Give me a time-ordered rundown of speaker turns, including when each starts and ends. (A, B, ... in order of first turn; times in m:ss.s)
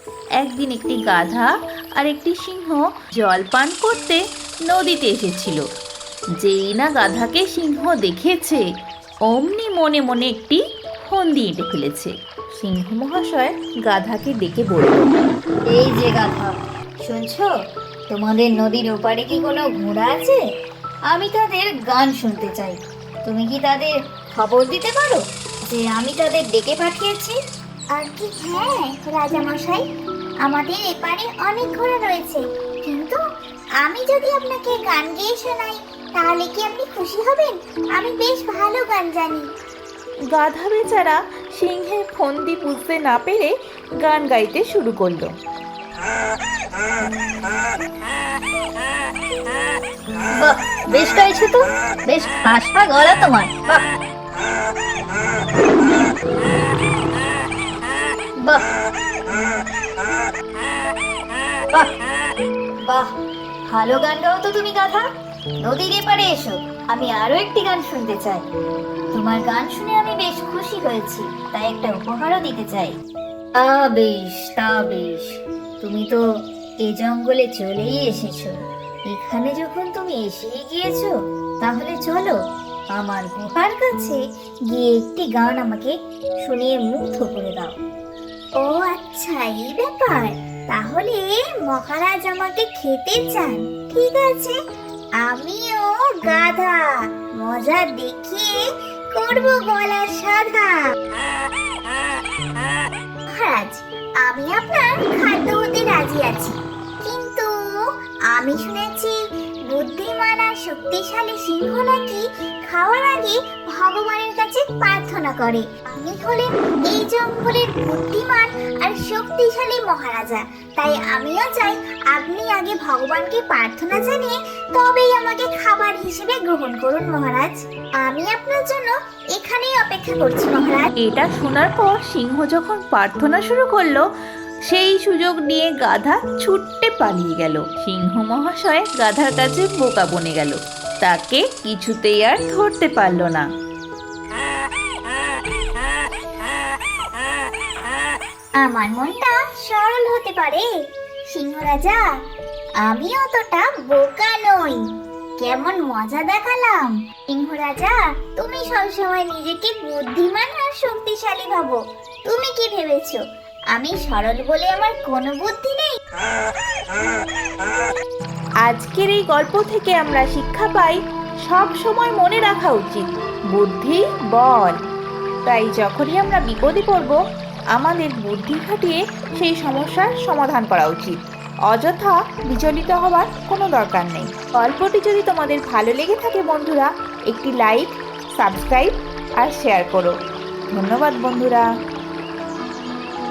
0:00.4-0:05.6 A
0:06.4-0:08.6 A
0:09.3-0:15.2 A
0:15.7-0:17.5 B
0:18.1-0:20.4 B
0:21.1-0:27.4 B
0:28.0-0:29.8 C
0:30.4-0:33.2 C
0:33.8-0:39.4 C
0:40.3-0:45.3 A
0:50.4-0:53.8 B
0:58.4-0:58.7 B
1:02.9-1:03.1 B
1:03.7-1:05.1 B
1:05.6-1:08.4 B
1:09.1-1:13.0 B
1:13.6-1:16.2 B
1:16.8-1:18.6 B
1:19.1-1:22.4 B
1:22.9-1:24.2 B
1:24.7-1:27.8 B
1:28.6-1:34.6 C
1:35.2-1:36.8 C
1:37.4-1:38.6 C
1:39.2-1:40.8 C
1:43.3-1:47.5 C
1:48.3-1:49.2 C
1:49.7-2:10.9 C
2:11.0-2:14.1 A
2:14.7-2:23.5 A
2:28.6-2:30.7 C
2:31.3-2:32.0 C
2:32.8-2:34.8 C
2:35.4-2:41.8 C
2:42.3-2:43.2 C
2:43.8-2:46.0 C
2:48.6-2:54.8 A
2:55.4-2:57.2 A
2:57.7-3:10.2 A
3:10.7-3:11.7 A